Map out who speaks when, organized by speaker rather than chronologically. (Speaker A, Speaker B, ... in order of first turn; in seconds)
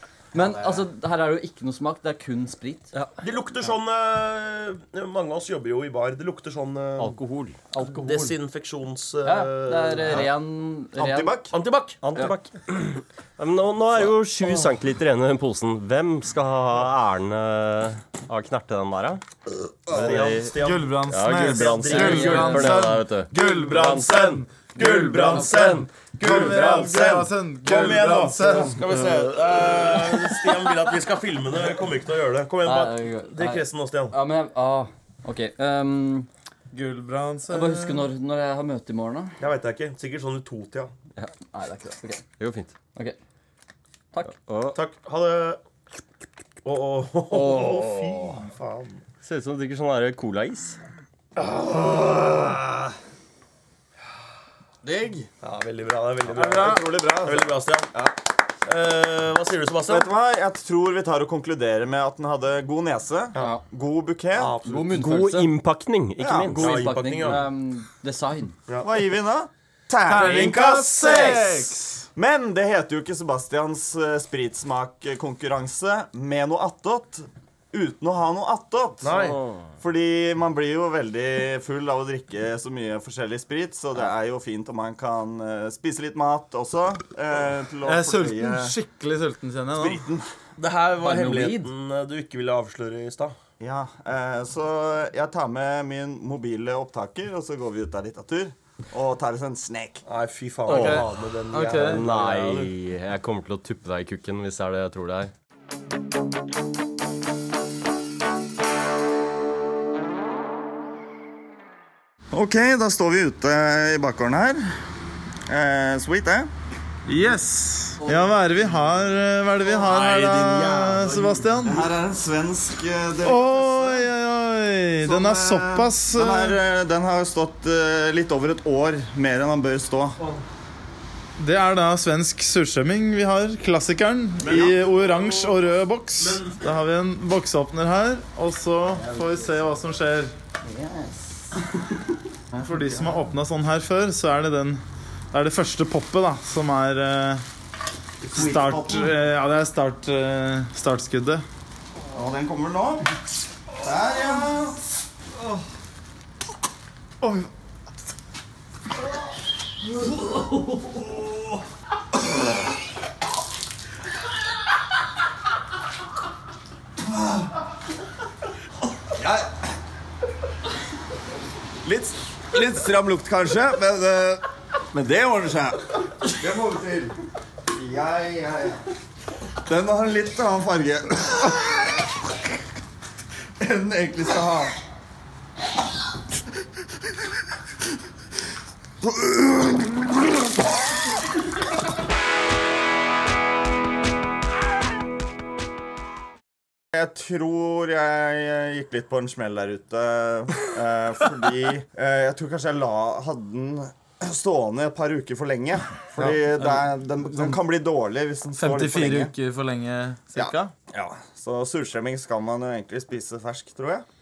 Speaker A: 0.3-2.9, 7.7-8.4, 9.2-11.5, 21.9-22.6, 32.6-36.3, 37.5-39.4, 41.2-42.3, 63.4-63.6, 64.6-65.6, 66.5-68.6, 91.0-91.7, 118.0-118.3
Speaker B: 0.4-0.8, 11.0-11.5, 54.8-55.3, 56.3-58.1, 59.8-64.6, 66.2-66.5, 68.8-88.8, 89.8-90.3, 93.6-100.0, 112.3-114.8, 115.5-116.5, 121.6-124.1, 125.0-130.2, 140.6-141.6, 142.6-143.2, 148.2-149.1, 152.1-153.1, 153.8-154.8, 169.1-169.7, 171.8-177.2, 177.7-178.8, 179.6-182.2, 183.6-184.8, 189.0-190.2, 196.9-209.3, 210.4-214.1
Speaker C: 3.2-7.2, 7.8-10.3, 11.5-12.3, 19.9-34.2, 39.4-40.9, 44.7-45.6, 46.6-49.0, 51.4-52.8, 55.4-58.0, 58.6-60.1, 64.3-65.0, 66.5-67.5, 79.0-79.4, 90.6-93.3, 100.0-102.7, 119.6-121.7, 130.2-130.4, 134.4-135.6, 136.2-136.7
Speaker D: 7.0-7.6, 12.0-19.2, 19.9-26.9, 42.4-42.7, 44.4-44.8, 47.3-48.4, 49.2-50.8, 64.9-67.0, 79.2-79.6, 100.7-101.0, 101.8-105.3
Speaker E: 20.6-24.4, 26.2-28.8, 36.7-38.1, 56.4-57.0, 70.1-72.0, 87.8-90.0, 100.7-102.1, 117.1-121.9, 123.2-126.6, 131.4-140.3, 142.6-144.8, 145.3-147.4, 148.3-151.4, 157.2-157.5, 206.5-206.8, 208.6-210.7